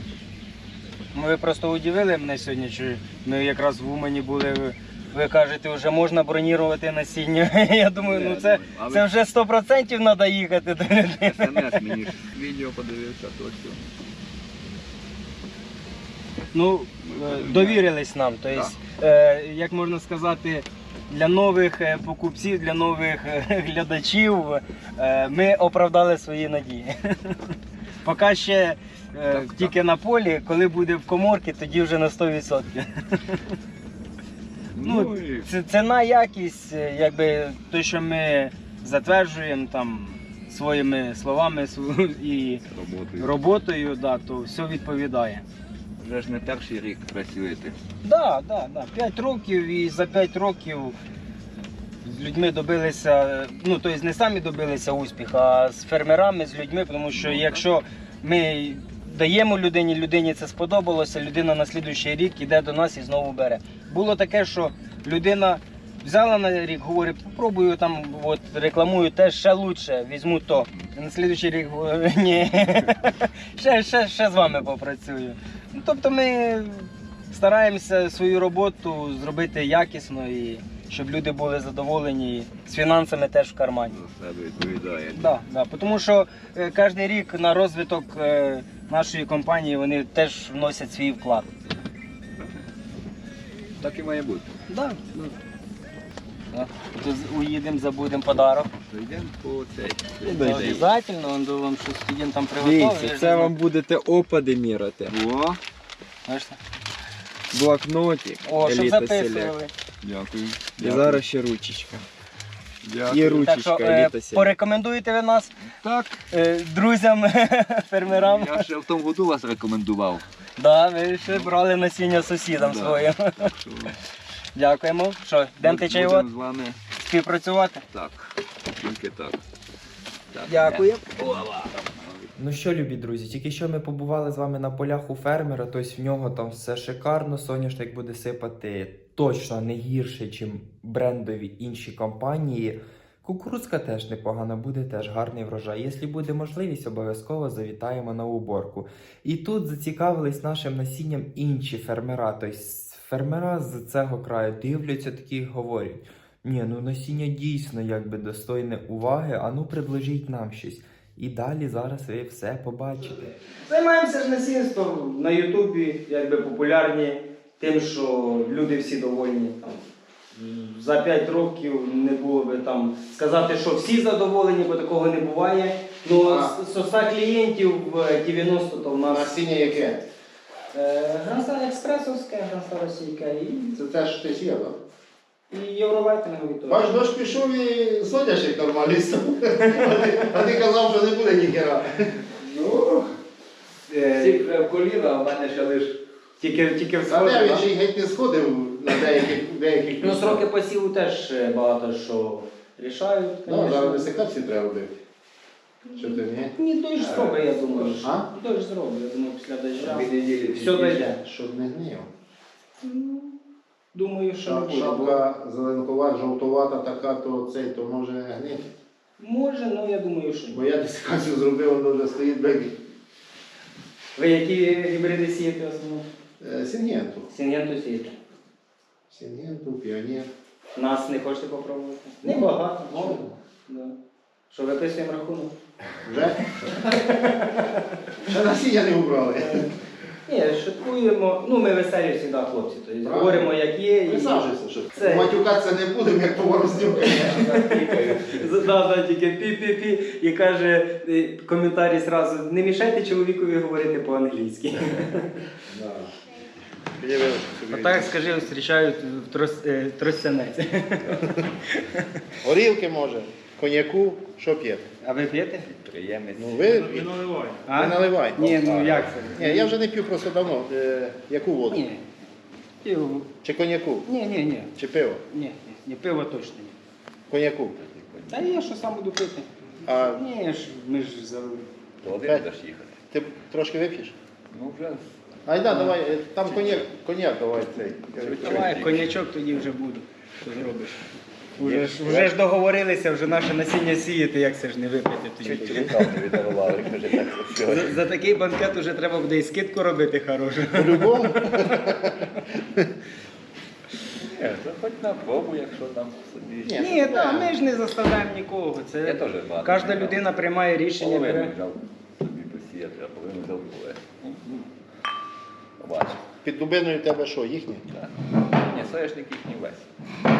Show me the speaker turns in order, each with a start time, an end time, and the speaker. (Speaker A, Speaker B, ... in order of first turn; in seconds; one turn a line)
Speaker A: 1.1-11.8
Speaker B: 8.0-9.1
Speaker B: 11.2-13.8
Speaker A: 16.5-33.6
Speaker B: 17.0-17.9
Speaker B: 18.5-18.8
Speaker B: 29.3-29.8
Speaker B: 34.7-35.5
Speaker A: 34.8-42.6
Speaker B: 42.7-43.4
Speaker A: 43.2-45.4
Speaker B: 46.0-47.8
Speaker A: 48.0-50.9
Speaker A: 52.0-84.0
Speaker B: 57.1-57.6
Speaker B: 83.9-85.3
Speaker A: 85.1-91.5
Speaker B: 92.4-92.6
Speaker B: 93.8-94.5
Speaker A: 94.7-95.4
Speaker A: 96.5-98.7
Speaker B: 98.8-100.9
Speaker A: 100.3-103.5
Speaker C: 102.6-105.1
Speaker D: 102.7-105.0
Speaker B: 105.1-105.6
Speaker A: 106.2-106.6
Speaker C: 107.5-109.5
Speaker D: 107.7-108.4
Speaker A: 108.4-109.7
Speaker B: 110.0-111.2
Speaker C: 110.8-112.0
Speaker D: 111.1-111.4
Speaker B: 112.8-113.3
Speaker C: 113.1-114.5
Speaker A: 113.2-115.5
Speaker B: 115.7-116.2
Speaker A: 116.3-118.7
Speaker B: 118.0-120.2
Speaker A: 120.6-123.5
Speaker B: 121.3-121.5
Speaker B: 122.5-124.0
Speaker A: 124.5-126.2
Speaker B: 125.6-126.8
Speaker A: 127.0-127.8
Speaker B: 127.9-129.4
Speaker B: 130.3-132.3
Speaker A: 130.4-131.3
Speaker D: 132.4-163.3
Speaker A: 163.6-169.8
Speaker A: 170.3-179.3
Speaker C: 176.1-176.5
Speaker C: 179.1-180.0
Speaker A: 180.7-183.7
Speaker C: 183.7-184.8
Speaker A: 185.5-187.1
Speaker C: 186.7-192.1
Speaker B: 192.4-193.1
Speaker A: 193.9-194.4
Speaker B: 194.1-196.0
Speaker A: 196.4-197.7
Speaker C: 197.1-200.4
Speaker A: 200.0-204.2
Speaker C: 203.4-204.9
Speaker A: 205.8-211.2
Speaker C: 206.0-206.5
Speaker B: 207.0-207.9
Speaker C: 208.0-208.3
Speaker B: 209.8-211.1
Speaker C: 211.2-212.1
Speaker A: 212.8-213.3
Speaker A: 213.9-215.2
Speaker C: 214.4-218.7
Speaker A: 219.2-220.6
Speaker C: 220.5-222.7
Speaker A: 224.2-226.0
Speaker C: 226.4-227.3
Speaker A: 227.3-228.2
Speaker C: 229.1-230.3
Speaker A: 230.7-233.9
Speaker C: 232.2-233.3
Speaker A: 234.5-235.5
Speaker C: 236.0-236.4
Speaker A: 236.7-237.8
Speaker C: 238.2-239.7
Speaker A: 239.3-239.7
Speaker A: 240.2-245.3
Speaker C: 243.0-243.5
Speaker C: 244.1-247.4
Speaker B: 246.8-248.5
Speaker A: 247.0-255.3
Speaker C: 255.7-256.0
Speaker C: 257.0-258.1
Speaker A: 257.7-261.5
Speaker C: 262.4-264.8
Speaker A: 265.0-265.6
Speaker B: 265.6-267.1
Speaker C: 266.4-267.2
Speaker A: 267.5-269.7
Speaker C: 267.8-268.5
Speaker B: 268.4-269.3
Speaker C: 269.3-271.9
Speaker A: 271.7-272.0
Speaker A: 272.8-273.3
Speaker C: 273.4-274.1
Speaker A: 274.0-274.7
Speaker C: 274.8-275.2
Speaker A: 275.3-276.7
Speaker C: 277.3-277.8
Speaker B: 277.8-278.6
Speaker A: 278.3-281.7
Speaker C: 279.8-280.2
Speaker B: 282.0-283.0
Speaker C: 283.1-284.1
Speaker B: 284.5-285.1
Speaker C: 285.4-288.5
Speaker A: 285.7-286.0
Speaker B: 288.1-289.1
Speaker A: 288.4-296.1
Speaker B: 291.6-292.3
Speaker B: 295.4-298.0
Speaker A: 297.6-302.0
Speaker C: 300.7-302.9
Speaker B: 304.2-306.9
Speaker C: 306.6-307.5
Speaker A: 306.8-311.5
Speaker B: 309.0-310.4
Speaker B: 310.9-314.7
Speaker B: 315.8-316.2
Speaker C: 316.4-317.8
Speaker B: 317.9-319.9